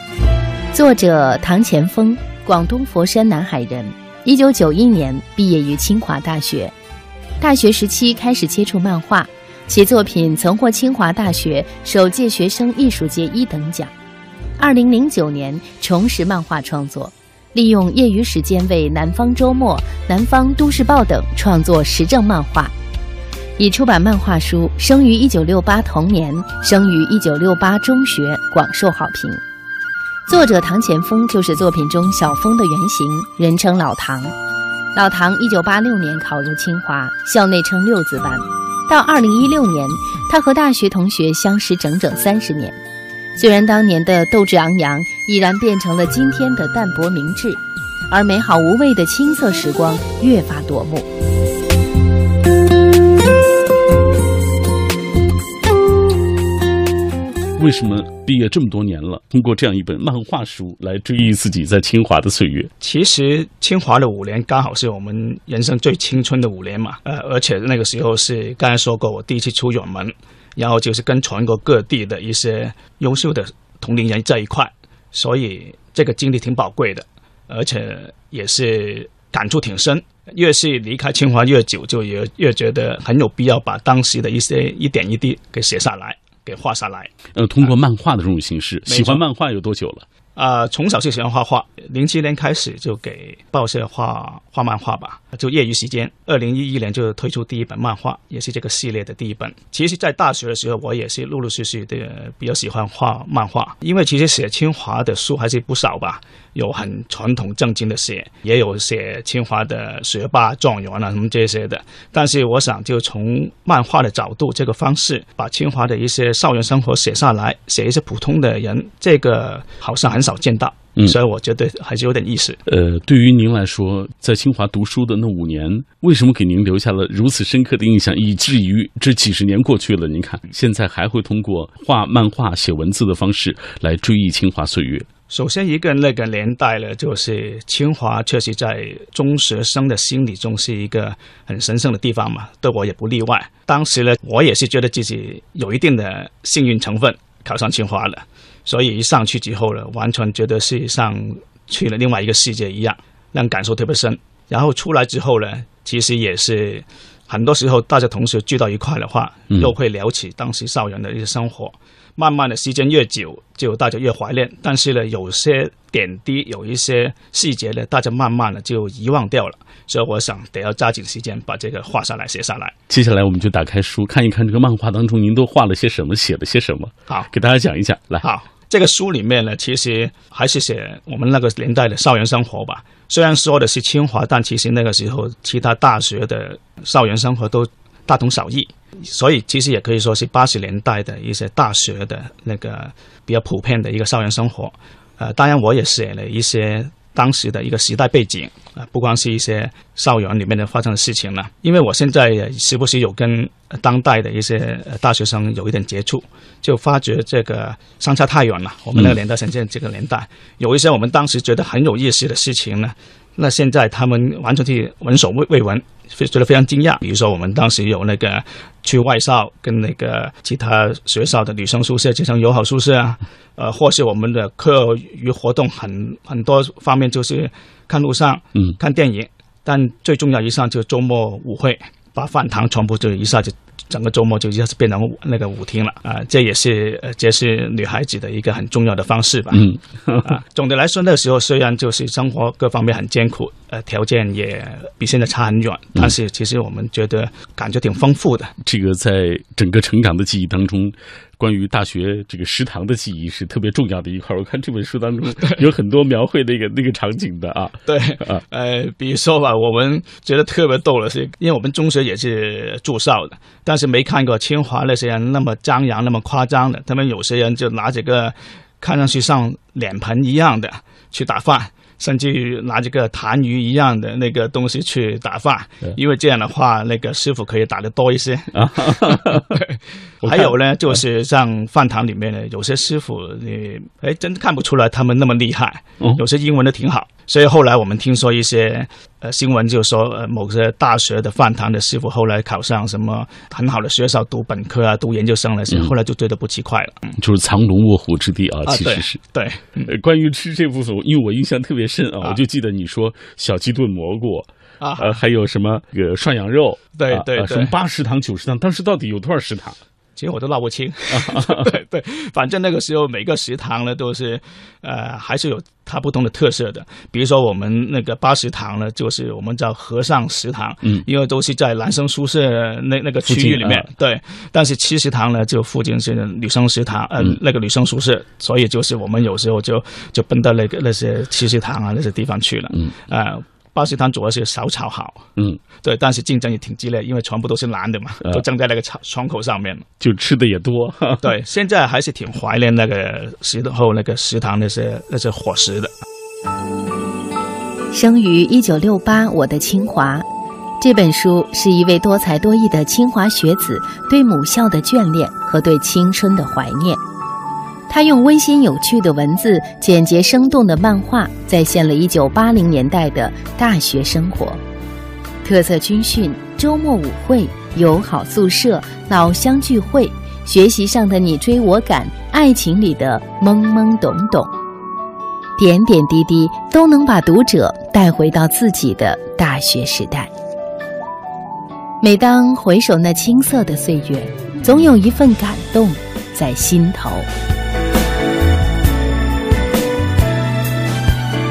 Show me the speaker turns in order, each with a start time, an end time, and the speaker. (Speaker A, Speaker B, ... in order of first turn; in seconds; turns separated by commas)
Speaker A: 0.7-6.7, Speaker A: 7.4-13.9, Speaker A: 14.6-22.7, Speaker A: 23.6-29.4, Speaker A: 30.3-34.3, Speaker A: 34.9-42.8, Speaker A: 43.4-51.1, Speaker B: 57.6-62.7, Speaker C: 62.8-87.1, Speaker B: 87.3-90.0, Speaker C: 88.9-89.2, Speaker C: 90.3-122.6, Speaker B: 122.7-135.1, Speaker C: 135.3-172.8, Speaker B: 172.9-178.2, Speaker C: 178.2-239.7, Speaker B: 239.5-240.3, Speaker C: 240.2-248.5, Speaker B: 248.6-258.4, Speaker C: 257.9-297.2, Speaker B: 278.5-279.6, Speaker B: 280.2-280.6, Speaker B: 297.2-299.2, Speaker C: 298.7-299.9, Speaker B: 299.9-309.8, Speaker C: 304.8-305.2, Speaker C: 307.0-307.7, Speaker C: 310.2-335.2, Speaker B: 311.1-311.7, Speaker B: 323.2-323.9, Speaker C: 335.8-339.9, Speaker B: 340.0-341.3, Speaker C: 341.2-345.9, Speaker A: 347.9-350.2, Speaker A: 350.8-357.0, Speaker A: 357.9-364.6, Speaker A: 365.4-374.5, Speaker A: 375.6-380.3, Speaker A: 382.0-387.3